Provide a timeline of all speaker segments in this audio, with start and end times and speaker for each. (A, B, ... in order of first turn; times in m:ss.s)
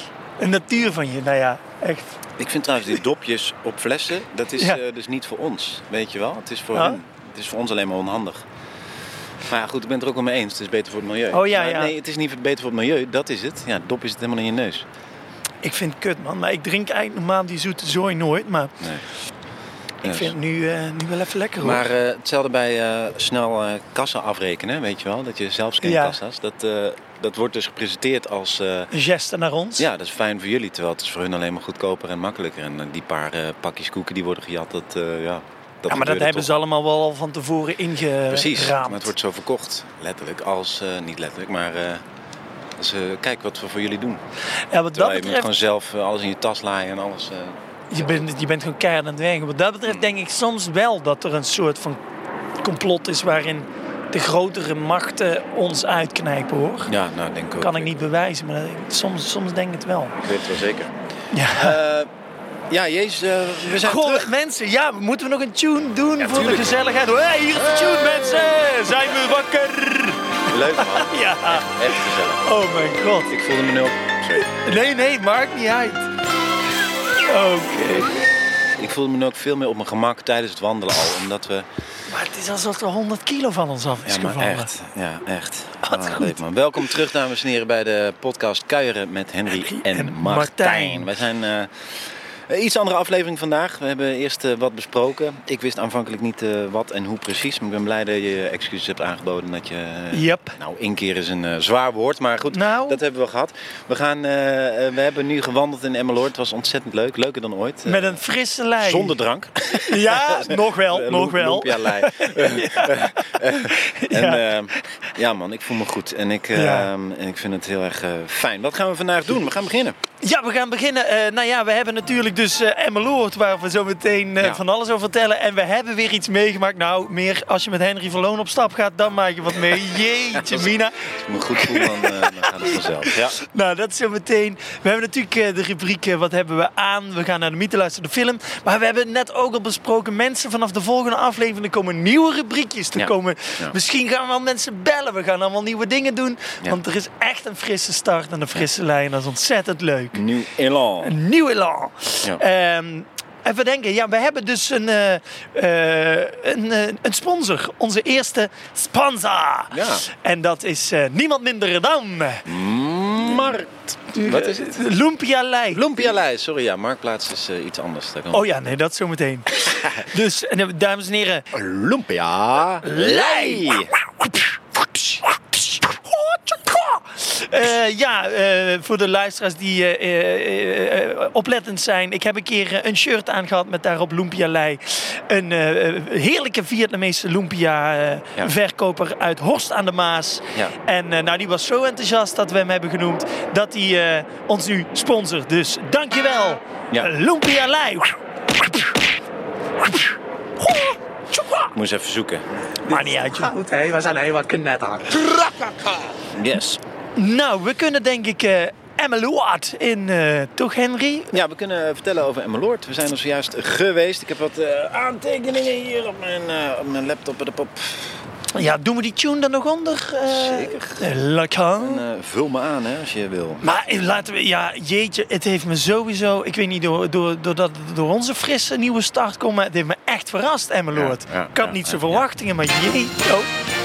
0:00.4-0:02.2 A
0:02.4-0:08.5 B
0:06.7-0:07.0 A
0:09.4-0:14.9 B
0:11.3-0:11.9 A
0:15.6-0:18.8 A
0:18.8-0:19.1 B
0:20.0-0:20.4 B
0:20.0-0:21.8 A
0:21.6-0:28.9 B
0:25.8-0:26.2 A
0:28.9-0:29.9 A
0:29.8-0:36.5 B
0:35.9-0:39.1 A
0:38.3-0:42.0 B
0:42.8-0:44.2 B
0:44.7-0:45.5 A
0:44.9-0:48.2 B
0:47.9-0:52.0 A
0:52.6-0:56.9 A
0:56.9-0:58.0 B
0:57.6-1:00.2 A
1:00.2-1:02.1 B
1:01.3-1:01.8 A
1:02.7-1:04.3 B
1:03.7-1:11.7 A
1:06.2-1:06.8 B
1:07.6-1:08.7 B
1:10.5-1:12.5 B
1:12.4-1:13.3 A
1:13.3-1:14.5 B
1:14.4-1:16.1 A
1:17.2-1:18.2 A
1:18.8-1:21.7 B
1:22.1-1:24.7 A
1:24.1-1:48.2 B
1:25.8-1:26.4 A
1:29.5-1:31.1 A
1:40.1-1:40.6 A
1:42.5-1:43.0 A
1:47.9-1:49.2 A
1:48.8-2:00.0 B
1:49.8-1:54.9 A
1:56.6-1:56.9 A
2:00.2-2:11.0 A
2:10.3-2:13.4 B
2:11.6-2:30.2 A
2:23.0-2:23.8 B
2:30.1-2:31.2 B
2:31.0-2:42.4 A
2:39.7-2:40.0 B
2:42.4-2:44.8 B
2:44.1-2:45.8 A
2:45.7-2:48.5 B
2:48.3-2:51.5 A
2:49.7-2:50.0 B
2:51.5-2:53.9 B
2:52.8-3:19.0 A
3:19.8-3:21.7 A
3:21.7-3:22.4 B
3:22.9-3:26.0 C
3:22.9-3:23.5 A
3:26.3-3:26.8 B
3:27.2-3:31.4 A
3:31.3-3:38.2 B
3:38.5-3:42.0 A
3:40.3-3:41.0 B
3:41.8-3:43.7 B
3:43.6-3:53.5 A
3:50.9-3:52.3 B